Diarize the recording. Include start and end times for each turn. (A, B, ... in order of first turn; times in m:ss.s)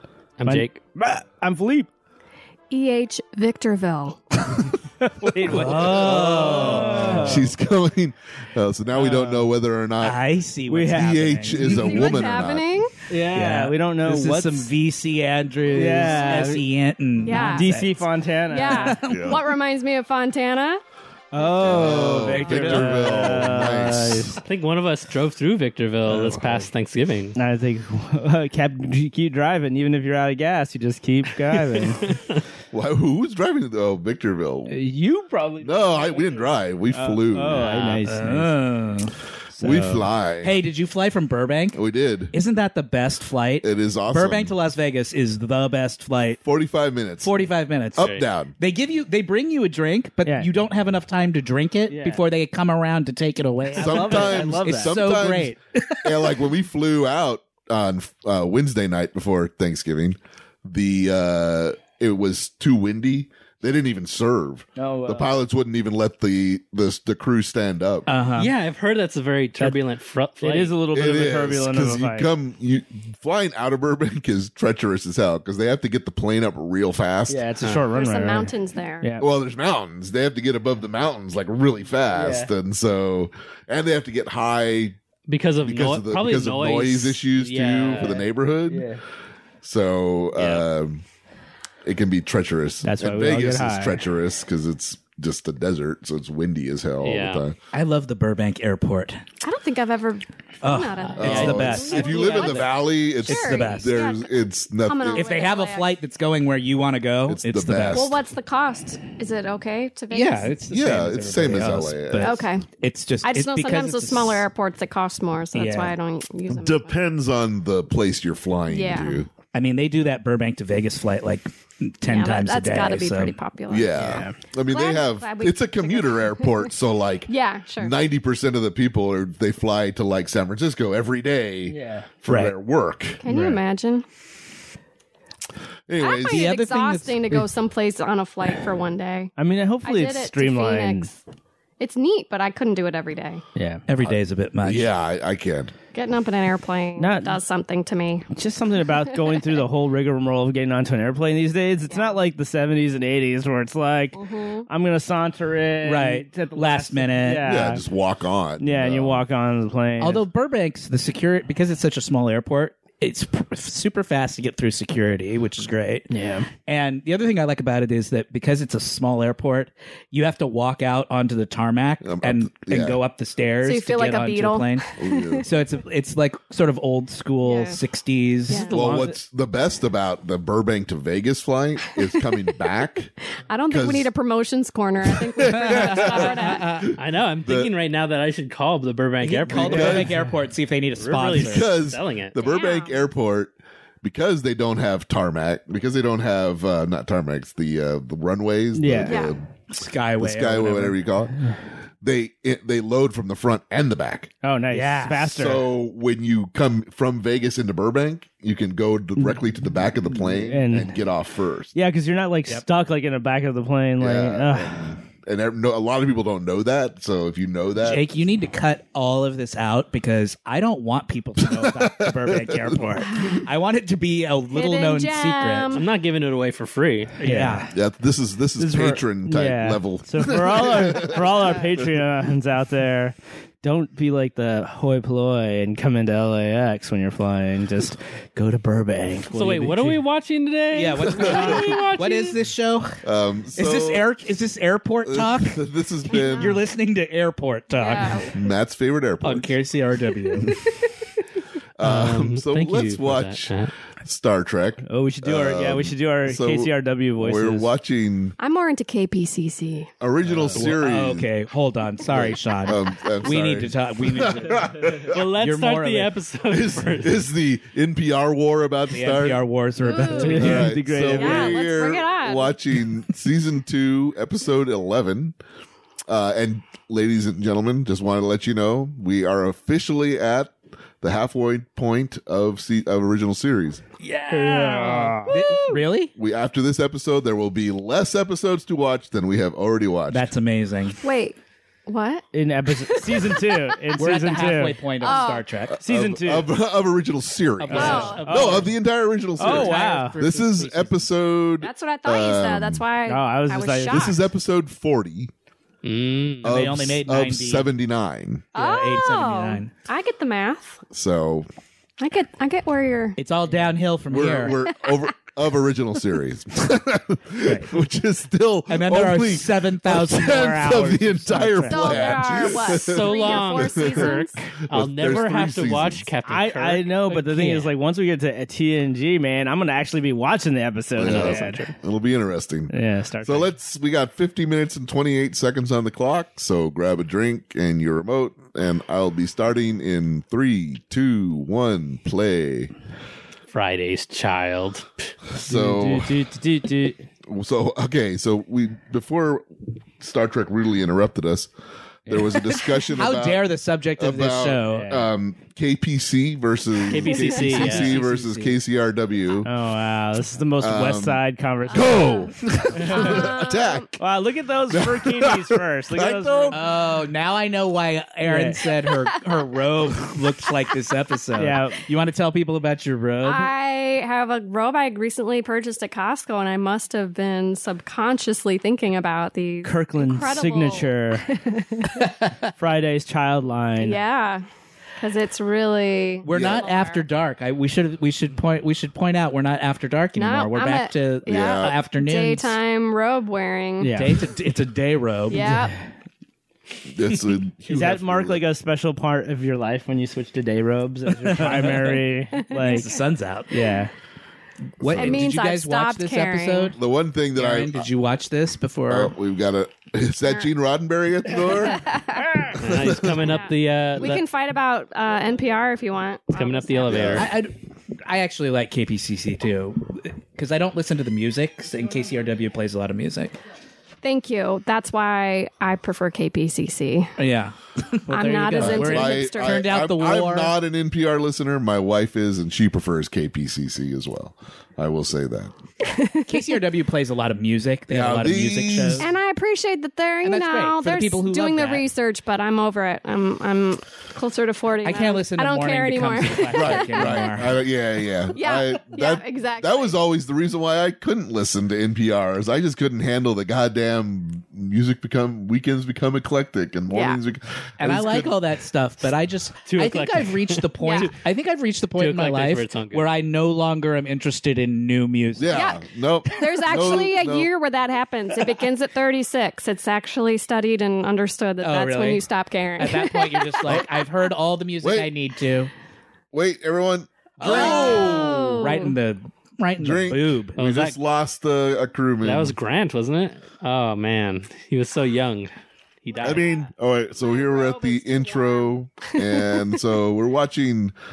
0:00.4-0:00.8 A
0:01.0-0:01.9 B
0:02.7-0:04.5 C
0:05.2-0:07.5 B
0:05.4-0:10.2 D
0:05.4-0:07.5 E
0:08.9-0:09.5 B
0:10.0-0:12.2 E
0:10.7-0:11.2 B
0:10.9-0:12.9 D
0:11.6-0:12.9 C
0:13.1-0:14.7 B
0:13.3-0:18.0 E
0:15.7-0:16.6 B
0:17.2-0:17.8 C
0:17.4-0:19.0 B
0:18.5-0:20.8 C
0:18.7-0:19.4 E
0:19.1-0:19.4 D
0:21.3-0:24.4 B
0:21.6-0:24.4 D
0:21.6-0:23.5 E
0:23.7-0:27.4 A
0:26.1-0:26.6 D
0:27.4-0:32.2 B
0:32.0-0:32.4 A
0:32.7-0:34.8 D
0:34.7-0:38.6 B
0:35.6-0:38.0 D
0:37.8-0:39.1 E
0:39.6-0:40.6 D
0:39.6-0:40.0 B
0:40.4-0:41.8 E
0:41.8-0:42.3 D
0:42.3-0:46.4 E
0:43.6-0:44.6 D
0:46.4-0:47.4 D
0:47.2-0:56.3 E
0:48.0-0:48.5 D
0:48.0-0:48.2 A
0:51.9-0:52.2 B
0:53.7-0:55.0 B
0:53.8-1:08.1 D
1:04.8-1:05.3 B
1:08.1-1:08.5 E
1:08.4-1:10.8 A
1:10.4-1:12.3 B
1:10.9-1:17.4 D
1:17.3-1:19.3 B
1:17.9-1:19.1 C
1:19.2-1:25.0 D
1:22.2-1:22.5 B
1:25.3-1:28.2 A
1:25.6-1:28.9 D
1:28.7-1:29.0 B
1:29.6-1:31.0 D
1:30.4-1:30.6 A
1:31.8-1:37.6 D
1:32.8-1:34.0 B
1:37.0-1:37.4 A
1:37.7-1:39.2 E
1:39.4-1:44.3 C
1:40.6-1:44.1 E
1:41.2-1:45.3 D
1:41.2-1:41.7 A
1:44.8-1:45.9 C
1:45.1-1:48.2 E
1:47.3-1:48.1 D
1:47.9-1:50.5 C
1:50.1-1:54.4 E
1:50.7-1:52.4 D
1:52.2-1:52.7 C
1:53.2-1:57.0 C
1:55.5-1:55.9 E
1:56.5-1:59.3 D
1:58.7-1:59.2 C
1:59.5-2:03.4 E
2:02.0-2:04.0 C
2:03.7-2:13.2 D
2:04.0-2:04.4 B
2:04.7-2:06.7 C
2:07.3-2:07.9 C
2:11.7-2:12.1 B
2:12.2-2:12.5 E
2:13.2-2:14.0 C
2:13.2-2:13.6 E
2:15.9-2:16.5 D
2:16.0-2:19.3 C
2:16.3-2:17.4 E
2:19.4-2:21.1 B
2:19.8-2:21.2 C
2:21.8-2:23.4 C
2:23.5-2:23.8 B
2:23.9-2:24.9 E
2:24.6-2:25.7 D
2:25.9-2:28.3 C
2:27.0-2:27.4 B
2:28.3-2:37.8 B
2:31.9-2:32.2 C
2:34.1-2:34.7 C
2:35.8-2:37.5 E
2:37.4-2:39.3 D
2:38.6-2:40.2 B
2:40.0-2:59.1 E
2:46.1-2:46.5 B
2:52.0-2:53.0 D
2:53.6-2:55.4 C
2:55.0-2:55.5 D
2:57.4-2:57.8 C
2:58.5-2:58.7 C
2:58.7-3:03.1 D
2:58.7-2:59.0 B
3:03.5-3:06.8 C
3:03.7-3:04.1 D
3:05.1-3:07.7 D
3:05.5-3:06.9 E
3:07.0-3:10.2 A
3:09.2-3:11.7 E
3:09.5-3:10.2 D
3:11.0-3:12.4 A
3:11.4-3:19.5 D
3:12.4-3:13.0 C
3:18.7-3:19.2 B
3:19.0-3:19.3 C
3:19.7-3:21.0 E
3:20.2-3:24.3 D
3:24.4-3:25.6 B
3:24.7-3:25.3 E
3:25.3-3:31.7 D
3:30.2-3:31.0 B
3:31.7-3:34.9 B
3:34.0-3:38.0 D
3:37.8-3:45.8 E
3:41.4-3:43.0 D
3:43.1-3:43.4 C
3:44.5-3:45.8 C
3:45.7-3:47.2 A
3:47.2-3:47.7 E
3:47.2-3:47.7 B
3:47.7-3:51.7 D
3:48.6-4:00.0 B
3:59.3-4:02.4 A
4:00.7-4:03.0 E
4:01.0-4:01.8 D
4:01.1-4:01.9 B
4:03.0-4:04.0 D
4:03.5-4:08.3 E
4:05.0-4:06.6 D
4:06.1-4:06.5 C
4:07.7-4:08.3 C
4:08.3-4:09.6 D
4:09.2-4:10.6 E
4:11.8-4:18.4 D
4:11.8-4:13.7 A
4:14.8-4:17.7 B
4:18.4-4:19.9 C
4:20.0-4:21.3 D
4:20.4-4:26.1 E
4:22.1-4:25.1 D
4:25.0-4:27.2 A
4:26.5-4:29.4 D
4:28.9-4:30.7 E
4:29.8-4:32.6 C
4:30.1-4:31.6 B
4:30.2-4:35.4 D
4:36.1-4:43.8 D
4:44.0-4:46.1 E
4:44.3-4:45.7 B
4:46.2-4:50.3 D
4:50.1-4:51.0 E
4:51.0-4:52.2 C
4:52.3-4:54.8 B
4:52.8-4:55.4 C
4:54.0-4:55.8 E
4:55.7-5:02.8 D
4:55.8-4:56.5 B
4:57.6-4:58.7 E
4:57.7-4:58.2 C
4:57.7-4:58.7 B
4:59.4-5:00.2 B
4:59.4-5:01.0 E
5:01.6-5:04.2 C
5:03.1-5:04.1 B
5:03.9-5:05.3 D
5:05.8-5:06.6 A
5:06.4-5:07.7 E
5:06.4-5:08.5 D
5:08.5-5:09.7 E
5:08.6-5:10.8 C
5:10.9-5:11.5 D
5:12.0-5:13.2 C
5:13.2-5:14.6 E
5:14.1-5:24.2 D
5:18.7-5:22.2 E
5:21.7-5:24.4 C
5:22.6-5:27.1 A
5:24.7-5:26.1 D
5:26.2-5:31.7 B
5:27.1-5:27.7 E
5:31.0-5:42.7 D
5:31.0-5:31.7 A
5:32.7-5:33.5 B
5:43.5-5:44.9 A
5:45.3-5:46.2 D
5:45.5-5:47.1 B
5:47.2-5:51.5 D
5:52.1-5:59.5 D
5:52.1-5:52.3 B
5:52.9-5:54.9 E
5:54.7-5:55.0 B
5:56.8-5:58.0 A
5:57.1-5:58.6 E
5:59.4-6:02.2 B
6:00.6-6:03.9 D
6:01.7-6:03.9 C
6:02.7-6:03.4 B
6:04.0-6:06.6 B
6:04.7-6:06.7 D
6:06.5-6:13.5 E
6:08.2-6:08.6 B
6:11.4-6:11.8 B
6:13.2-6:22.1 C
6:19.6-6:21.2 B
6:22.6-6:24.0 B
6:23.8-6:24.4 C
6:25.0-6:27.0 C
6:26.2-6:32.6 E
6:26.3-6:26.6 D
6:30.2-6:34.0 C
6:31.3-6:31.8 D
6:33.8-6:34.2 B
6:33.9-6:35.7 E
6:35.3-6:35.8 C
6:36.9-6:38.4 D
6:37.7-6:43.9 B
6:41.2-6:42.0 E
6:42.3-6:42.9 C
6:42.6-6:43.7 E
6:44.8-6:45.3 D
6:44.8-6:46.8 E
6:44.9-6:46.7 C
6:46.8-6:47.9 D
6:47.4-6:49.1 E
6:48.9-6:51.9 D
6:51.4-6:52.6 C
6:52.5-6:53.3 D
6:52.6-6:54.2 A
6:53.2-6:57.2 C
6:56.3-6:57.3 A
6:56.8-6:57.3 D
6:57.2-6:57.5 E
6:58.0-7:03.4 E
7:04.0-7:07.1 C
7:07.2-7:10.5 E
7:08.1-7:09.7 C
7:08.6-7:15.5 D
7:15.8-7:16.6 C
7:16.3-7:19.1 E
7:17.9-7:19.1 D
7:19.0-7:27.3 C
7:20.2-7:21.9 E
7:24.8-7:27.6 E
7:26.5-7:38.4 D
7:28.3-7:30.0 C
7:36.9-7:37.2 C
7:37.8-7:45.7 E
7:39.6-7:40.9 A
7:40.8-7:41.1 C
7:42.0-7:43.1 A
7:45.4-7:47.5 D
7:45.5-7:53.7 C
7:51.6-7:52.2 E
7:52.8-7:55.7 E
7:54.8-7:55.1 D
7:56.3-7:58.4 D
7:57.4-8:00.6 E
7:57.4-7:58.9 C
7:59.8-8:02.6 D
8:00.6-8:01.0 A
8:02.2-8:05.5 A
8:06.0-8:06.6 A
8:06.1-8:06.4 C
8:06.2-8:10.9 D
8:07.2-8:09.8 C